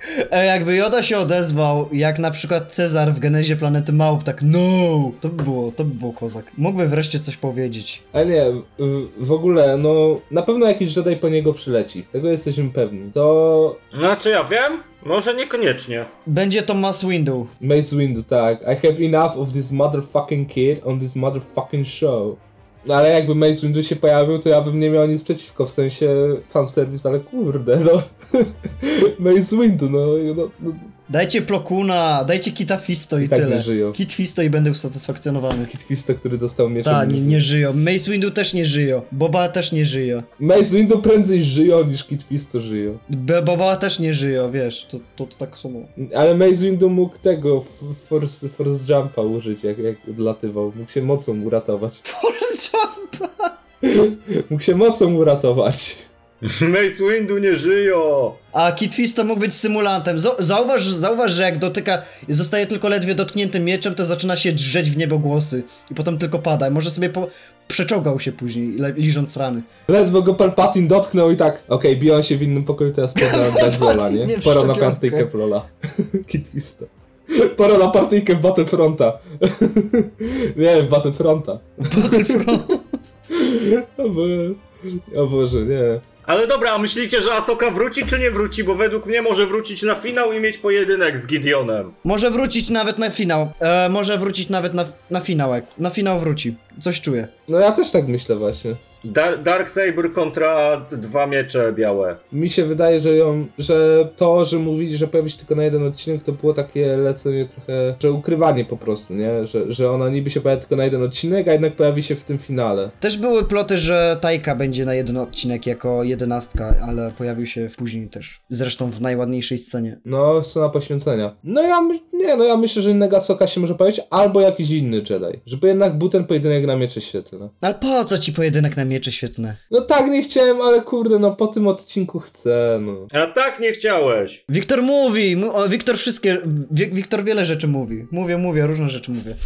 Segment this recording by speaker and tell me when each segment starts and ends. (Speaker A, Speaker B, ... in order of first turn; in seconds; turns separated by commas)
Speaker A: 0.3-8.0, Speaker B: 8.1-13.8, Speaker C: 13.9-16.1, Speaker A: 16.3-17.5, Speaker B: 17.6-30.9, Speaker A: 31.1-35.7, Speaker B: 33.2-34.0, Speaker B: 35.7-37.4, Speaker A: 36.8-40.3, Speaker B: 40.4-43.0, Speaker A: 43.1-45.9, Speaker B: 46.0-52.0, Speaker A: 52.0-53.5, Speaker B: 53.8-56.1, Speaker C: 56.4-58.4, Speaker A: 58.5-69.7, Speaker B: 69.9-82.6, Speaker A: 73.2-75.3, Speaker A: 81.8-82.8, Speaker B: 83.3-86.0, Speaker C: 86.2-91.9, Speaker A: 92.0-97.3, Speaker B: 97.5-98.8, Speaker C: 99.0-102.2, Speaker B: 102.3-112.9, Speaker A: 113.0-120.0, Speaker B: 120.0-127.5, Speaker A: 127.6-129.6, Speaker B: 129.7-133.1, Speaker C: 133.1-134.4, Speaker A: 134.5-139.4